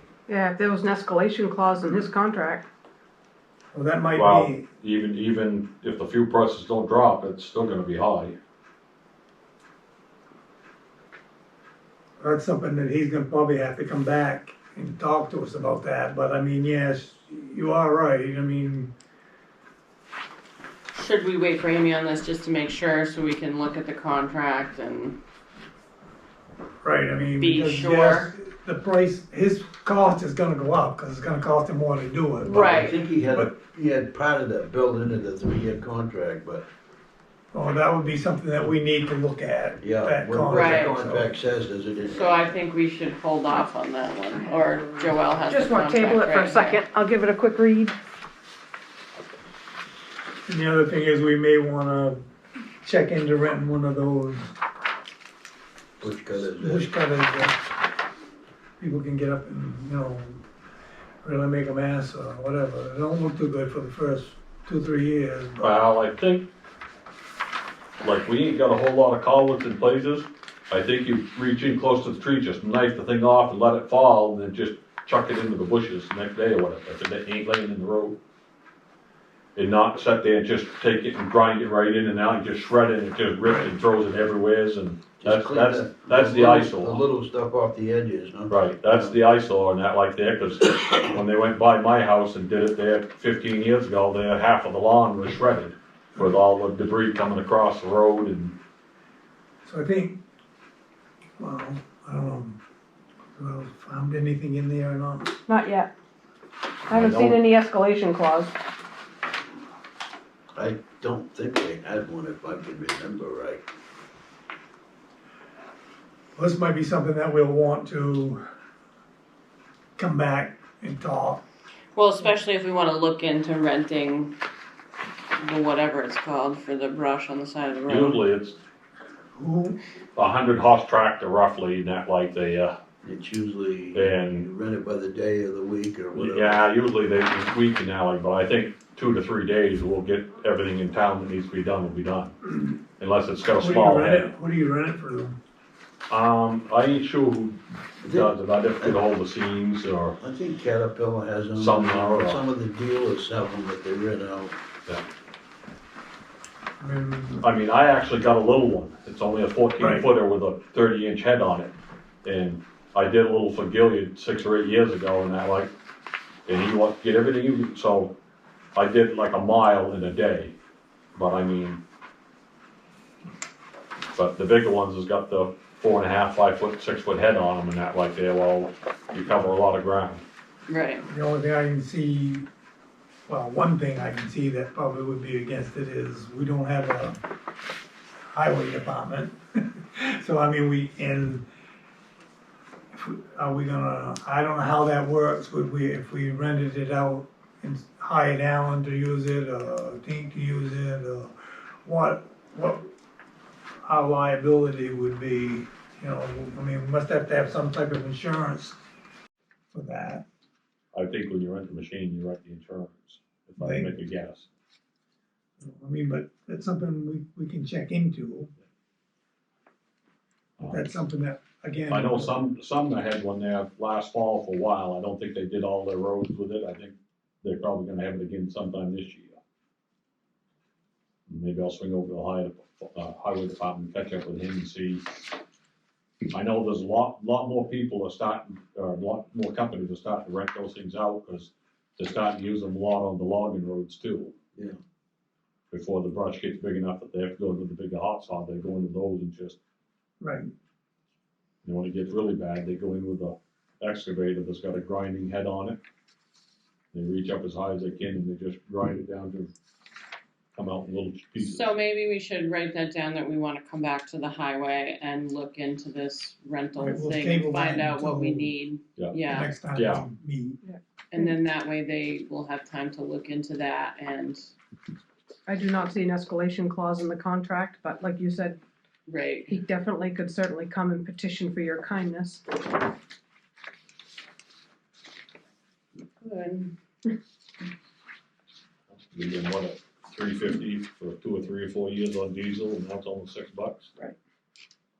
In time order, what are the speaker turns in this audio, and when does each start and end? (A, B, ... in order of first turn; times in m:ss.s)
0:00.3-0:02.7 A
0:03.7-0:04.6 B
0:04.1-0:08.4 C
0:12.2-0:18.9 B
0:20.9-0:25.2 D
0:26.8-0:32.8 B
0:27.4-0:28.3 D
0:32.4-0:33.0 D
0:32.5-0:36.6 E
0:37.5-0:41.3 B
0:39.8-0:42.6 E
0:40.5-0:40.9 D
0:42.0-0:46.8 D
0:45.3-0:48.0 A
0:50.5-0:52.2 B
0:52.8-0:54.5 B
0:56.0-0:56.9 E
0:56.4-0:57.6 B
0:58.8-1:00.4 B
1:01.2-1:05.7 B
1:05.6-1:06.5 C
1:08.0-1:18.2 C
1:19.6-1:27.0 C
1:25.2-1:29.2 E
1:28.5-1:38.6 C
1:39.6-1:40.2 B
1:41.4-1:42.6 B
1:43.4-1:45.4 B
1:45.5-1:45.9 A
1:46.9-1:47.4 C
1:46.9-1:48.5 A
1:50.5-1:53.6 E
1:56.4-1:58.4 B
2:00.0-2:01.4 B
2:01.9-2:04.3 D
2:05.4-2:08.2 D
2:07.9-2:08.6 C
2:09.3-2:09.8 B
2:10.2-2:12.7 C
2:13.0-2:16.6 E
2:13.9-2:14.5 C
2:16.1-2:22.3 C
2:23.0-2:24.3 C
2:23.5-2:25.4 B
2:26.1-2:30.2 C
2:28.0-2:29.0 E
2:30.2-2:34.5 E
2:31.6-2:32.4 C
2:36.8-2:37.4 B
2:37.4-2:41.7 C
2:39.8-2:40.1 B
2:42.2-2:45.7 C
2:46.5-2:48.1 C
2:48.8-2:50.5 C
2:51.1-2:51.8 C
2:54.1-3:00.2 C
3:00.7-3:01.0 D
3:01.1-3:02.5 B
3:03.3-3:07.2 B
3:08.3-3:09.3 B
3:09.9-3:11.4 B
3:12.9-3:21.3 B
3:21.8-3:22.8 B
3:23.8-3:28.8 B
3:29.7-3:30.2 B
3:30.9-3:34.5 C
3:33.6-3:33.9 B
3:35.6-3:38.5 B
3:40.6-3:40.8 C
3:40.6-3:42.4 B
3:41.9-3:49.4 C
3:51.3-3:55.0 C
3:56.3-4:04.3 C
4:05.7-4:09.6 C
4:10.2-4:10.5 B
4:11.6-4:15.8 C
4:16.9-4:19.5 C
4:20.5-4:21.7 C
4:21.4-4:29.5 D
4:26.8-4:28.5 B
4:29.2-4:30.6 B
4:29.7-4:30.0 C
4:30.6-4:31.3 A
4:31.1-4:34.5 D
4:35.5-4:38.6 A
4:39.0-4:39.5 D
4:39.5-4:42.4 A
4:46.2-4:46.7 D
4:49.1-4:53.9 C